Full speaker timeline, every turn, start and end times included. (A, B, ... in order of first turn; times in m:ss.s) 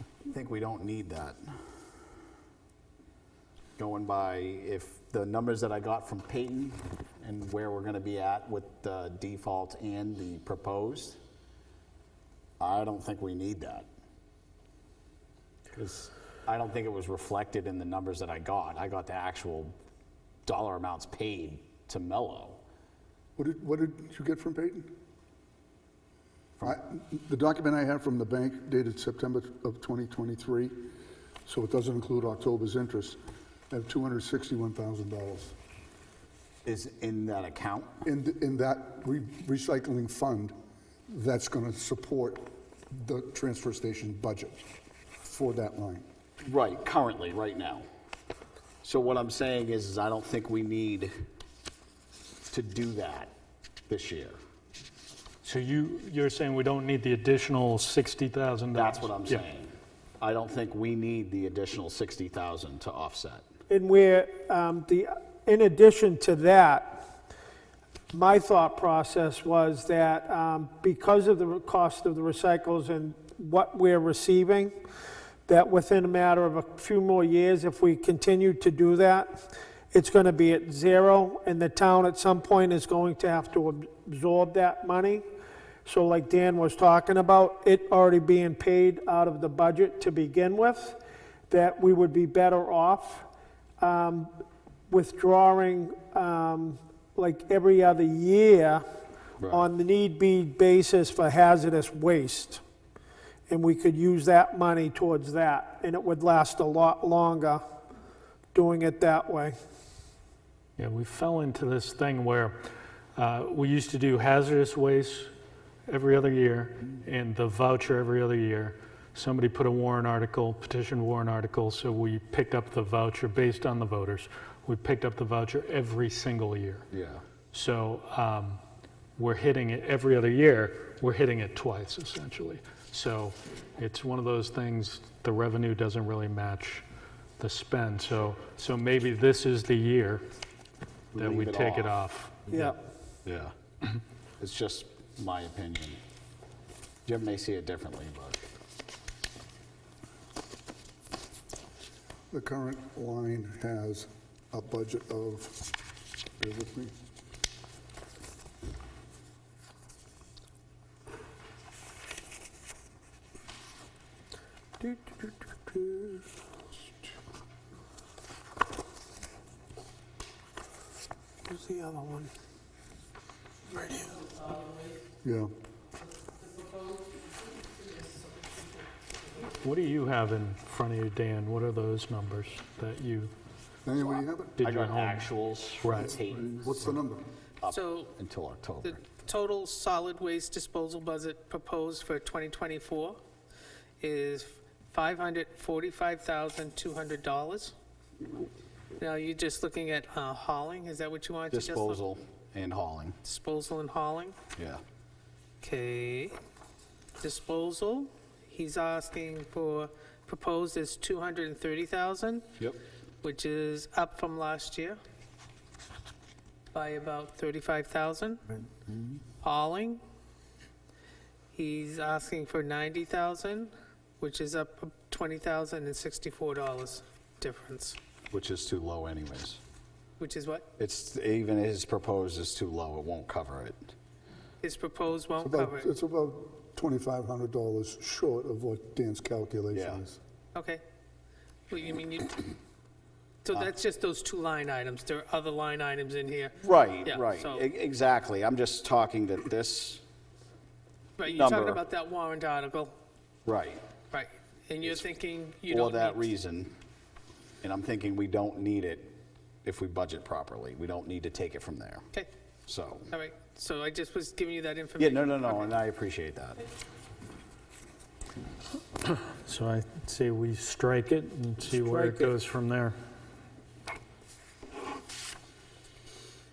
0:00.3-0:01.4 A
0:03.8-0:11.2 A
0:12.6-0:13.9 A
0:15.7-0:19.8 A
0:20.5-0:22.6 A
0:23.4-0:24.9 B
0:26.6-0:30.8 B
0:31.5-0:33.2 B
0:33.7-0:35.6 B
0:36.6-0:38.0 A
0:38.0-0:40.5 B
0:41.1-0:44.6 B
0:45.2-0:46.0 B
0:46.4-0:47.9 A
0:48.8-0:51.1 A
0:52.5-0:53.3 A
0:53.9-0:54.4 A
0:55.4-0:59.4 C
0:58.7-1:03.4 A
1:03.7-1:07.1 D
1:08.1-1:14.8 D
1:15.5-1:25.2 D
1:25.8-1:33.3 D
1:33.8-1:34.3 D
1:34.9-1:38.8 D
1:39.4-1:39.7 A
1:39.5-1:42.6 D
1:43.5-1:47.6 D
1:48.5-1:49.6 D
1:50.8-1:52.6 C
1:53.2-1:55.3 C
1:55.9-2:06.9 C
2:06.9-2:07.2 A
2:07.5-2:08.6 C
2:09.2-2:16.8 C
2:17.4-2:20.2 C
2:21.1-2:22.0 A
2:21.2-2:22.8 C
2:23.2-2:23.5 A
2:24.4-2:26.0 A
2:27.1-2:28.4 A
2:32.3-2:35.7 B
2:36.4-2:37.0 B
2:44.8-2:46.2 D
2:51.5-2:52.3 D
2:53.7-2:54.2 D
2:55.2-2:55.5 B
2:56.4-2:58.7 E
2:59.6-3:03.3 C
3:03.8-3:04.7 B
3:04.0-3:06.9 A
3:04.6-3:06.2 C
3:05.9-3:07.2 B
3:07.6-3:09.0 A
3:07.7-3:08.1 E
3:08.8-3:13.2 E
3:14.0-3:17.7 E
3:19.0-3:22.0 E
3:21.5-3:23.2 A
3:23.2-3:24.4 E
3:24.6-3:24.8 A
3:25.6-3:26.4 E
3:27.2-3:32.5 E
3:33.2-3:35.0 E
3:36.7-3:38.4 E
3:39.4-3:40.0 E
3:41.5-3:48.0 E
3:48.3-3:49.6 A
3:50.2-3:50.7 E
3:50.8-3:53.8 A
3:54.6-3:55.9 E
3:55.4-4:00.2 B
3:59.7-4:00.0 A
4:00.6-4:00.8 E
4:01.7-4:02.5 E
4:03.4-4:07.6 E
4:06.6-4:10.0 A
4:11.2-4:13.0 E
4:11.3-4:11.8 A
4:13.5-4:13.8 A
4:14.1-4:16.3 E
4:15.7-4:16.7 A
4:17.6-4:22.1 A
4:22.7-4:23.1 A
4:23.1-4:25.7 E
4:25.0-4:26.6 A
4:29.0-4:33.0 C
4:31.7-4:32.3 D